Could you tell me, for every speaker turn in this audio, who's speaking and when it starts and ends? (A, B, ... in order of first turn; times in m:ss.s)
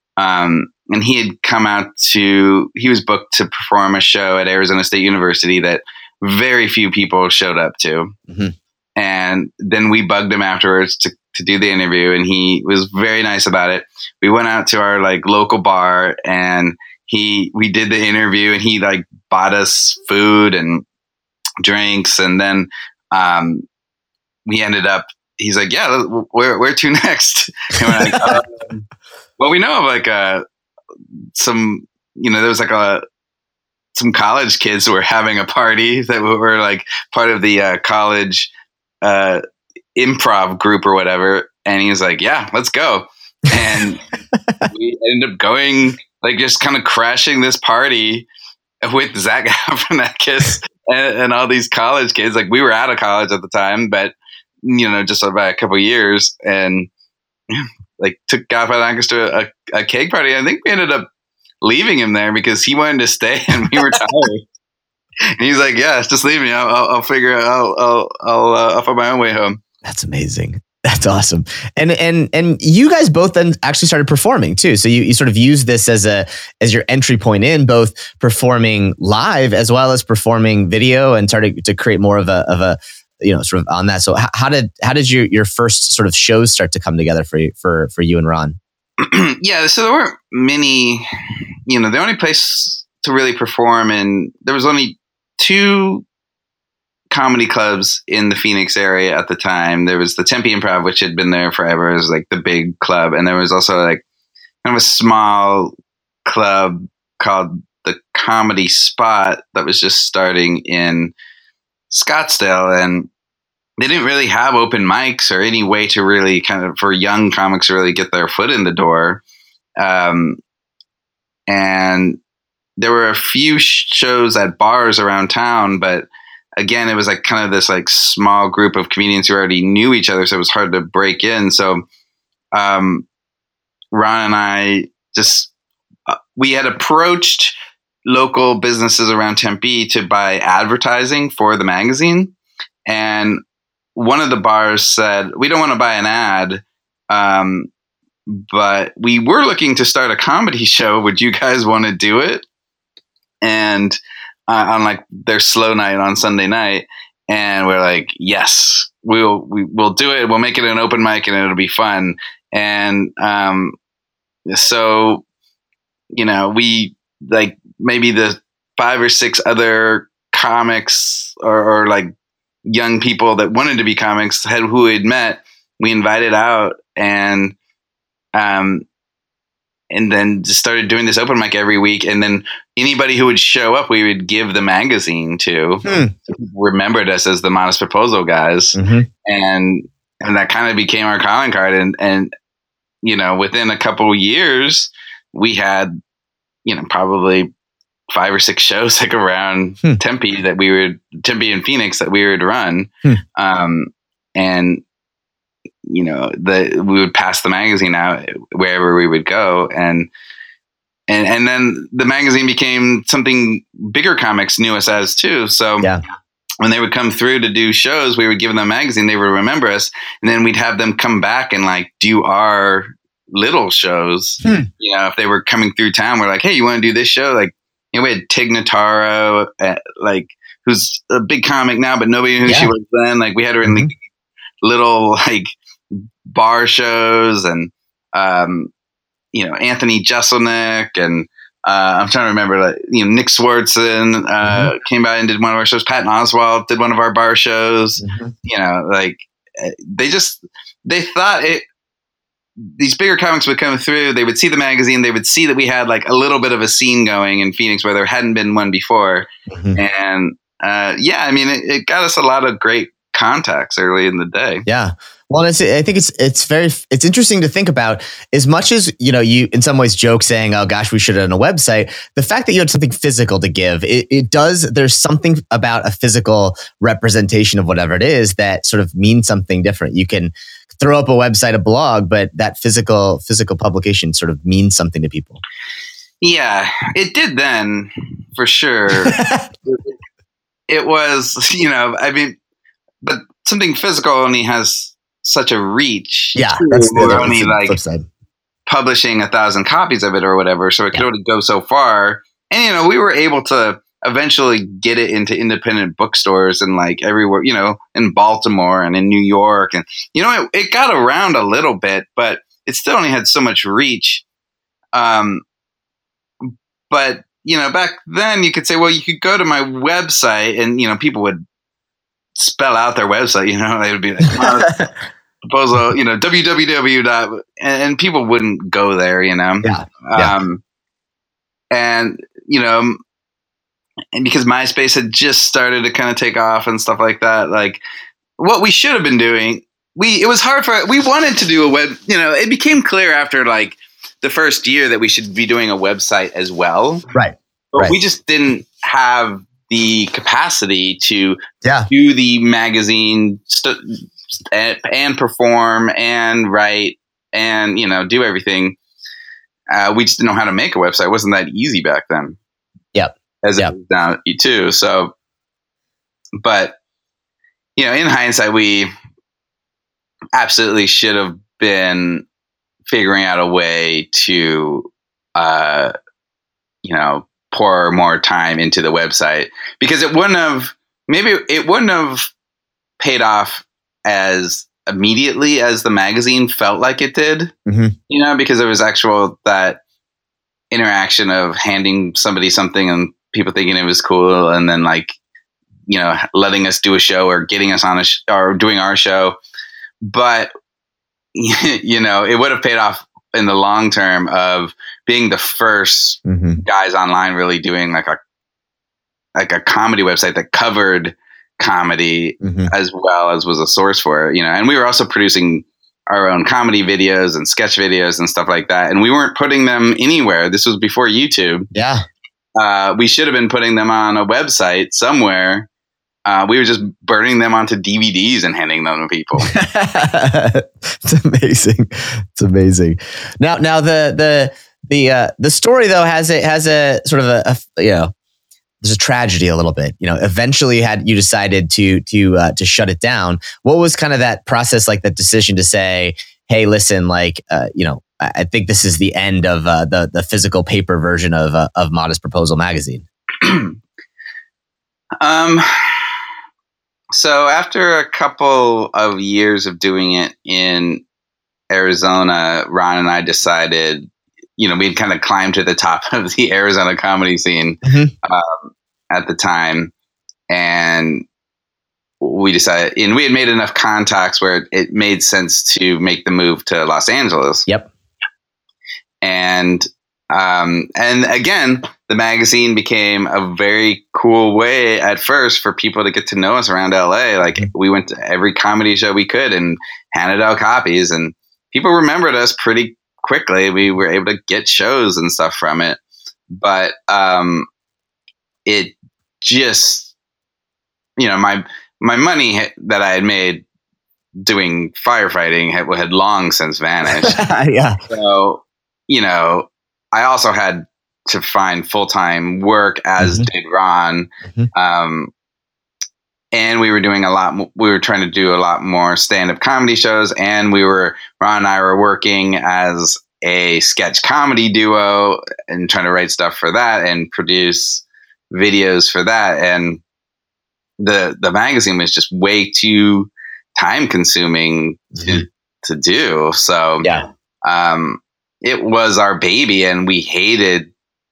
0:00.2-0:08.2 A
0:09.0-0:20.8 A
0:21.6-0:23.6 A
0:24.5-0:28.8 A
0:27.9-0:28.4 B
0:29.4-0:30.4 A
0:31.4-0:33.0 A
0:33.9-0:38.5 A
0:39.0-0:39.4 A
0:40.0-0:44.0 A
0:44.7-0:48.3 A
0:48.8-0:56.9 A
0:57.5-1:01.1 A
1:01.6-1:04.5 A
1:05.4-1:09.6 A
1:09.8-1:28.6 B
1:29.0-1:31.1 A
1:31.7-1:36.1 A
1:37.1-1:44.0 A
1:44.6-1:45.7 A
1:46.2-1:51.1 A
1:51.9-1:53.1 A
1:53.8-1:59.2 A
1:59.8-2:00.4 A
2:01.5-2:02.2 A
2:02.8-2:11.8 A
2:12.6-2:13.1 A
2:13.9-2:15.5 A
2:16.1-2:17.6 A
2:18.1-2:22.3 A
2:22.9-2:23.4 A
2:24.0-2:27.7 A
2:28.3-2:32.4 A
2:33.4-2:43.8 A
2:44.5-2:45.2 A
2:46.1-2:52.1 A
2:52.7-2:57.6 A
2:58.4-2:58.9 A
2:59.9-3:12.3 A
3:05.8-3:06.1 B
3:08.8-3:09.1 B
3:13.0-3:16.0 A
3:16.6-3:17.5 A
3:18.1-3:24.8 A
3:25.9-3:30.1 A
3:31.1-3:35.9 A
3:36.6-3:53.9 A
3:44.4-3:44.7 B
3:53.6-3:53.9 B
3:54.6-3:55.5 A
3:56.3-3:58.7 A
3:59.3-4:11.6 A
4:04.4-4:04.7 B
4:08.0-4:08.4 B
4:12.8-4:24.6 A
4:19.5-4:19.8 B
4:24.7-4:45.4 B
4:46.2-4:49.9 A
4:49.1-4:49.5 B
4:50.7-4:52.4 A
4:53.0-4:57.8 A
4:56.4-4:58.1 B
4:58.7-5:14.2 A
5:14.9-5:15.4 A
5:16.9-5:21.4 A
5:22.4-5:24.8 A
5:24.4-5:24.9 B
5:25.5-5:30.6 A
5:29.6-5:30.4 B
5:31.7-5:33.0 A
5:34.1-5:37.8 A
5:38.4-5:47.0 A
5:47.1-5:48.0 B
5:47.7-5:51.4 A
5:51.6-5:51.9 B
5:51.9-5:53.8 A
5:54.5-5:58.8 A
5:59.7-6:02.4 A
6:03.0-6:03.7 B
6:03.4-6:05.1 A
6:06.4-6:06.8 A
6:07.8-6:08.9 A
6:10.4-6:12.2 A
6:12.9-6:15.9 A
6:16.8-6:22.3 A
6:23.0-6:27.5 A
6:27.7-6:28.0 B
6:28.1-6:29.8 A
6:30.7-6:35.2 A
6:35.9-6:39.4 A
6:40.0-6:40.5 A
6:41.4-6:48.2 A
6:46.2-6:46.6 B
6:49.4-7:01.7 A
6:52.4-6:52.7 B
7:01.7-7:02.0 B
7:02.6-7:05.7 A
7:06.3-7:09.5 A
7:09.5-7:18.1 B
7:18.8-7:33.0 B
7:33.4-7:33.8 A
7:35.2-7:36.0 A
7:37.1-7:41.0 A
7:41.7-7:44.1 A
7:44.6-7:49.9 A
7:47.8-7:48.1 B
7:50.5-7:51.3 A
7:52.2-7:57.7 A
7:59.2-8:16.0 A
8:16.5-8:17.7 A
8:18.7-8:20.1 A
8:21.2-8:23.6 A
8:24.4-8:27.4 A
8:27.1-8:28.0 B
8:28.1-8:35.3 A
8:33.2-8:33.5 B
8:36.5-8:50.0 A
8:51.0-8:57.1 A
8:55.2-8:55.4 B
8:57.6-9:00.9 A